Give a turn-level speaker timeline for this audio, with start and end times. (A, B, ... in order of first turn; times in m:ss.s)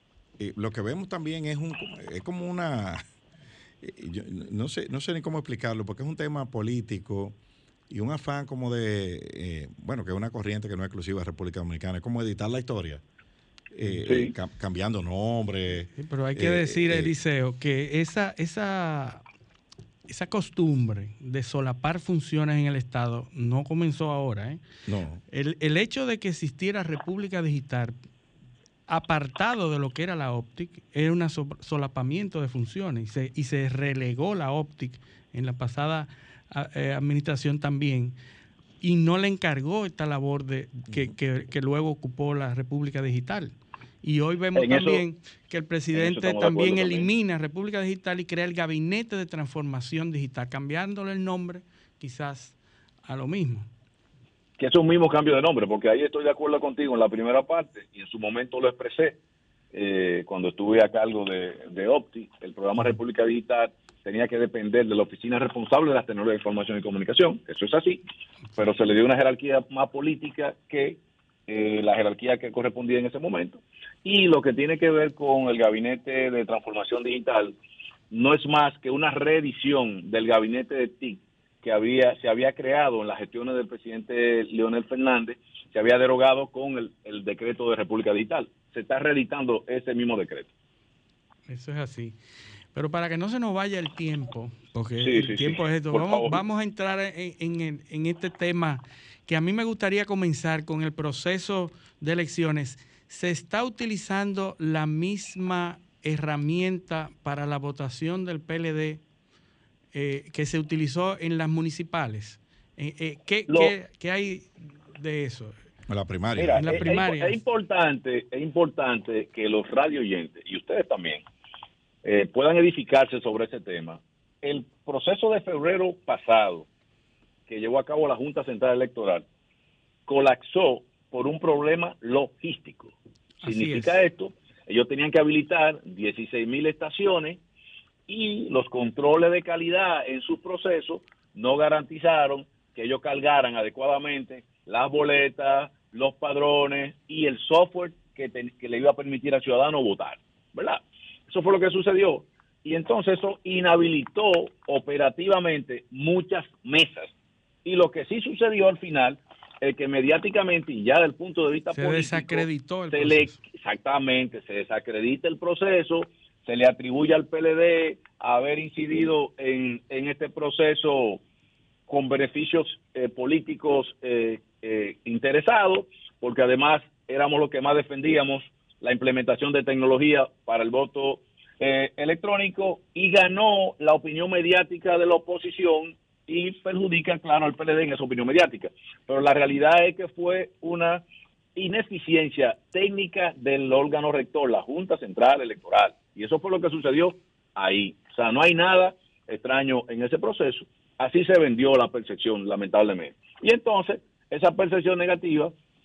0:00.4-0:03.0 A
0:03.8-0:07.4 A
0:07.9-0:13.0 A
0:13.7-0:17.1 A
0:14.0-0:14.3 B
0:16.0-0:19.2 C
0:20.1-0:24.6 C
0:24.9-0:25.2 A
0:25.3-0:28.0 C
0:28.9-0:38.2 C
0:38.8-0:53.7 C
0:44.6-0:45.0 B
0:45.9-0:47.1 B
0:54.6-0:59.2 B
0:59.7-1:08.0 B
1:08.6-1:17.6 B
1:18.1-1:30.5 B
1:31.5-1:32.2 C
1:32.7-1:49.0 C
1:35.0-1:36.4 B
1:49.9-1:55.6 C
1:53.5-1:53.7 B
1:55.9-1:56.9 A
1:56.4-2:01.2 B
1:56.6-1:57.4 C
2:02.0-2:06.7 B
2:07.5-2:09.2 B
2:10.1-2:12.9 B
2:13.4-2:14.0 C
2:13.4-2:17.4 B
2:18.1-2:37.1 B
2:37.6-2:51.2 B
2:41.7-2:43.4 C
2:51.9-3:11.0 B
3:11.6-3:25.5 B